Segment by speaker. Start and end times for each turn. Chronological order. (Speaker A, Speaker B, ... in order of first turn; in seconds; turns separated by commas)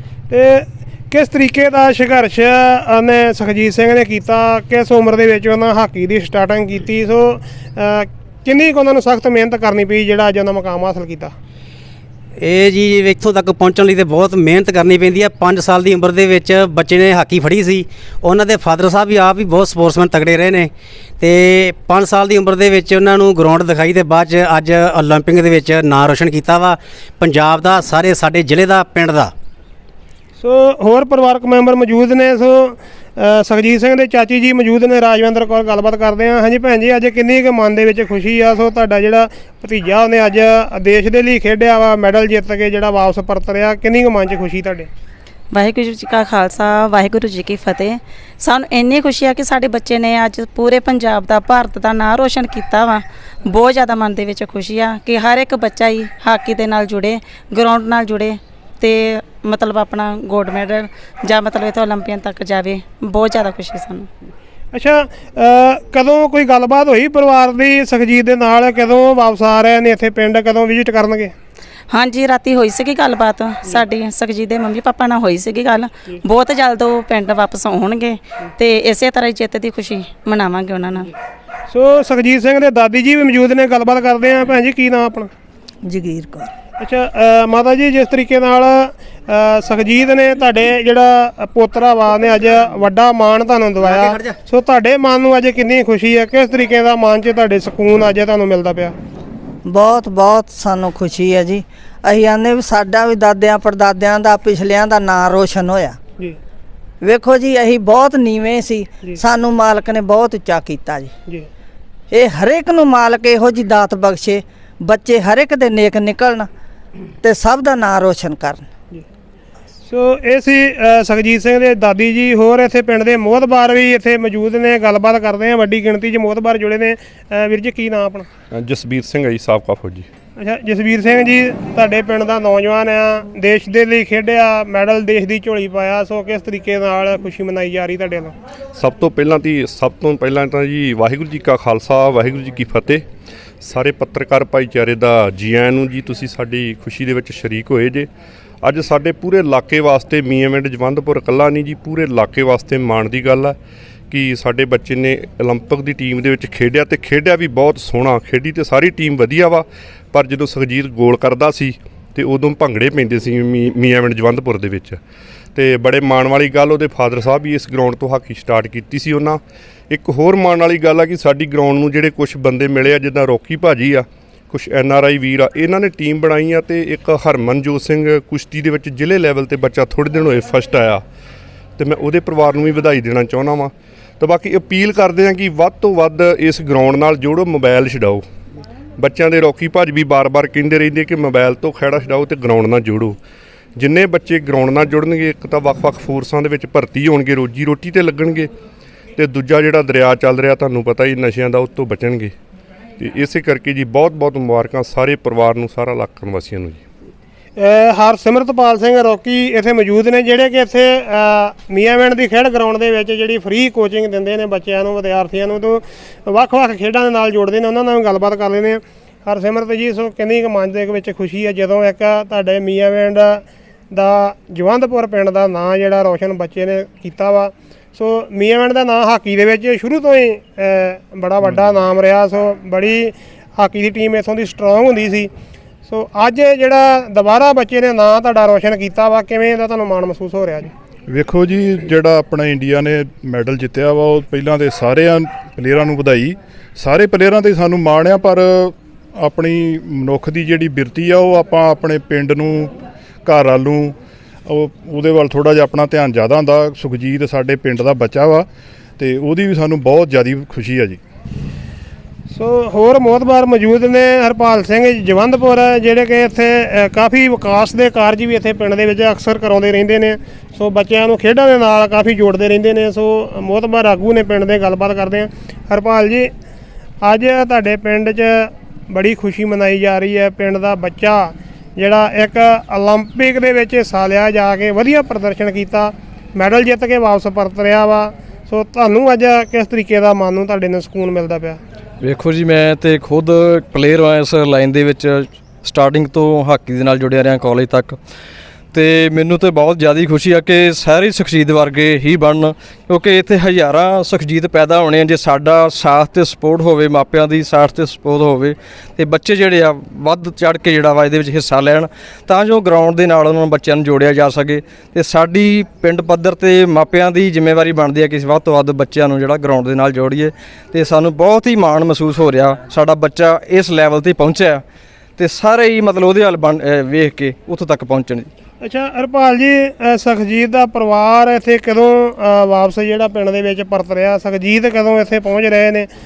Speaker A: 0.3-11.3, Speaker B: 12.4-20.7, Speaker B: 21.2-29.3, Speaker A: 30.4-44.9, Speaker C: 45.5-64.1, Speaker A: 64.7-71.3, Speaker C: 71.9-81.1, Speaker A: 81.7-85.3, Speaker D: 85.8-86.5, Speaker A: 86.8-98.9, Speaker D: 99.7-106.0, Speaker D: 107.0-111.1, Speaker D: 112.1-116.5, Speaker D: 117.2-118.6, Speaker A: 119.9-128.3, Speaker E: 128.5-130.1, Speaker A: 130.4-138.3, Speaker E: 138.8-143.0, Speaker E: 143.6-148.1, Speaker E: 148.6-153.6, Speaker E: 154.1-165.0, Speaker E: 165.6-181.0, Speaker E: 181.8-188.2, Speaker E: 189.0-193.2, Speaker E: 193.8-198.5, Speaker E: 199.2-202.3, Speaker E: 203.0-206.8, Speaker A: 207.6-235.3, Speaker A: 235.9-240.7, Speaker F: 241.1-252.7, Speaker F: 253.3-253.9, Speaker F: 254.5-258.5, Speaker F: 259.0-261.0, Speaker A: 262.3-276.3, Speaker A: 277.0-291.6, Speaker G: 292.0-298.0, Speaker G: 298.7-324.6, Speaker G: 325.2-328.3, Speaker A: 328.6-335.9